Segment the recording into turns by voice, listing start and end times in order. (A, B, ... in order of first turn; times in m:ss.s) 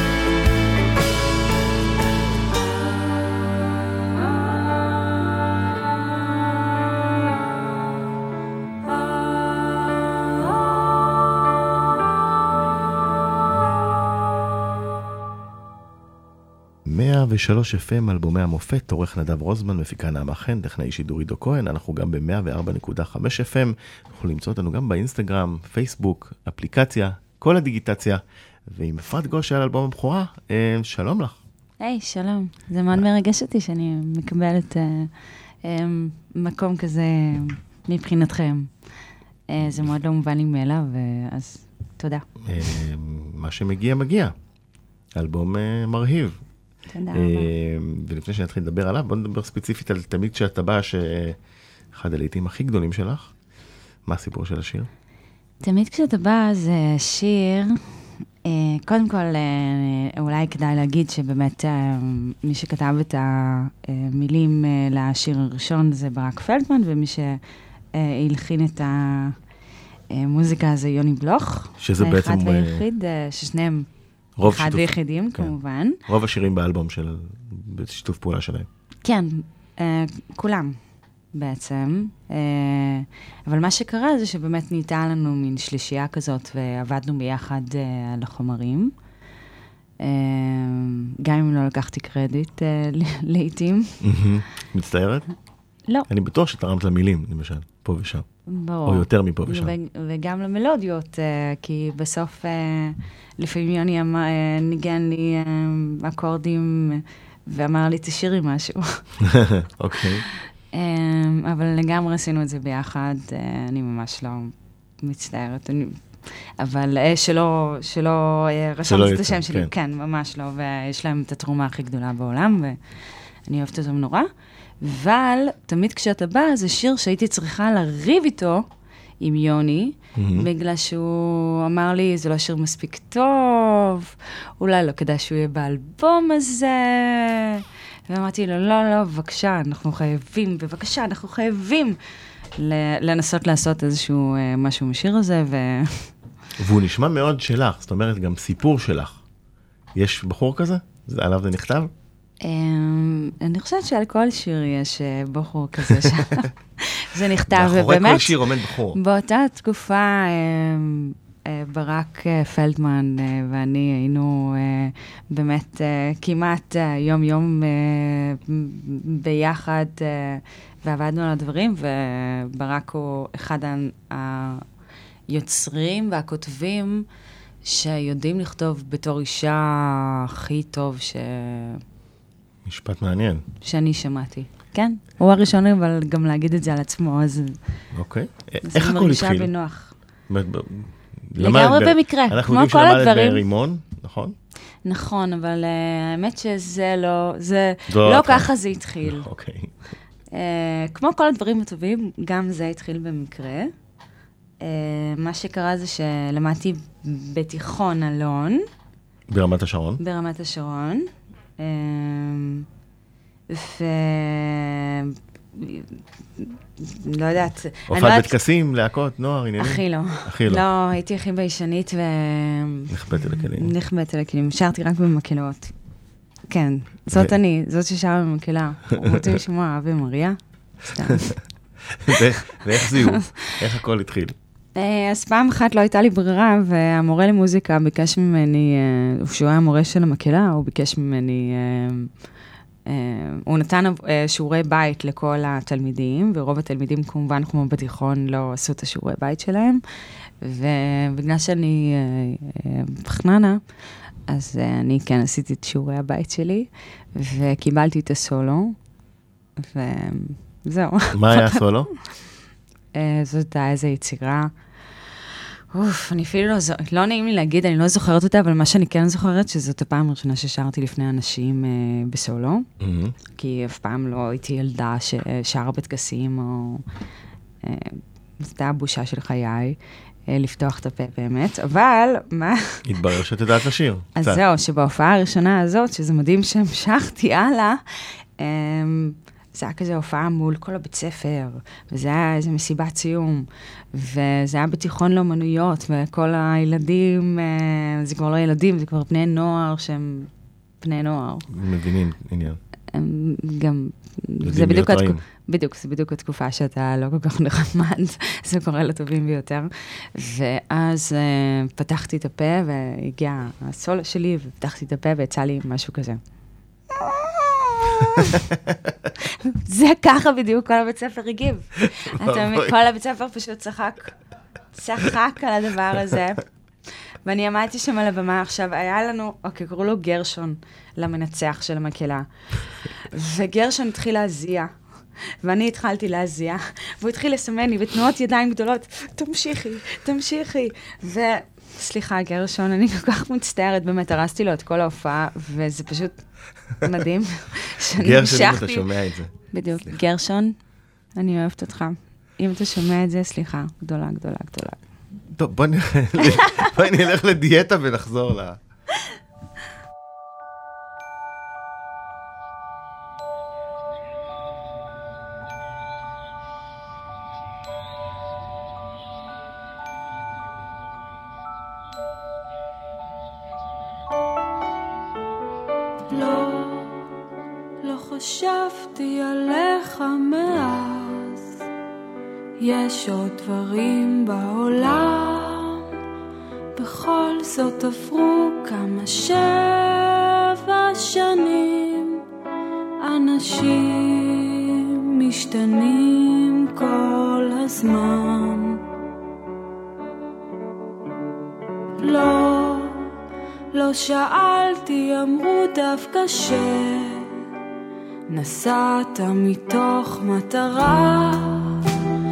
0:16.8-0:31.4 A
0:31.8-0:35.1 B
0:35.6-0:38.7 B
0:39.5-0:42.2 B
0:42.4-0:44.3 A
0:45.2-0:46.4 A
0:46.9-0:47.5 B
0:47.1-0:51.4 A
0:51.9-0:53.3 A
0:54.1-0:54.9 A
0:55.6-0:57.8 B
0:58.4-1:07.4 B
1:07.9-1:09.4 B
1:10.1-1:13.9 B
1:11.8-1:12.8 A
1:14.4-1:15.5 A
1:14.4-1:16.0 B
1:16.1-1:18.7 A
1:19.0-1:20.8 B
1:21.3-1:28.9 B
1:30.0-1:34.0 B
1:34.0-1:35.3 A
1:36.1-1:38.2 A
1:38.5-1:49.1 B
1:38.9-1:39.7 A
1:49.2-1:50.2 A
1:50.7-2:02.8 B
1:58.9-1:59.7 A
2:03.5-2:04.3 B
2:04.8-2:08.6 B
2:09.2-2:22.0 B
2:10.2-2:10.5 A
2:22.6-2:26.1 B
2:26.6-2:29.2 A
2:29.9-2:31.9 A
2:32.4-2:54.6 B
2:37.5-2:39.0 A
2:55.3-2:57.1 B
2:57.6-3:01.8 B
3:02.6-3:03.4 A
3:03.6-3:07.6 B
3:07.9-3:09.5 A
3:08.7-3:09.9 B
3:10.3-3:14.4 A
3:11.4-3:13.4 B
3:14.8-3:19.2 B
3:17.9-3:18.5 A
3:19.0-3:19.7 A
3:20.3-3:23.7 B
3:24.6-3:28.6 B
3:29.3-3:30.0 A
3:30.0-3:31.1 B
3:31.6-3:32.7 B
3:33.5-3:38.4 B
3:37.9-3:40.6 A
3:39.6-3:45.7 B
3:42.9-3:43.7 A
3:46.5-3:51.4 B
3:49.0-3:49.4 A
3:51.9-3:54.3 A
3:52.9-3:53.5 B
3:54.8-4:02.1 B
4:02.9-4:09.8 B
4:10.4-4:13.6 B
4:14.3-4:18.8 B
4:19.6-4:21.6 B
4:21.1-4:21.9 A
4:22.9-4:24.5 B
4:25.7-4:32.7 B
4:32.8-4:33.2 A
4:33.3-4:36.8 B
4:37.6-4:39.8 B
4:40.3-4:42.8 B
4:42.8-4:44.4 A
4:44.2-5:00.3 B
5:00.8-5:01.4 B
5:01.5-5:02.6 A
5:02.9-5:16.2 B
5:04.4-5:05.2 A
5:17.0-5:18.5 B
5:19.2-5:24.2 B
5:22.0-5:22.7 A
5:24.7-5:26.4 B
5:27.2-5:34.8 B
5:35.4-5:46.3 B
5:46.8-5:48.9 B
5:48.0-5:49.3 A
5:49.5-5:50.6 B
5:51.2-5:54.8 B
5:55.3-5:58.6 A
6:16.1-6:17.1 C
6:17.8-6:21.5 C
6:22.6-6:25.9 C
6:26.8-6:32.2 C
6:33.0-6:38.8 C
6:42.0-6:43.1 C
6:43.7-6:47.4 C
6:48.3-6:51.9 C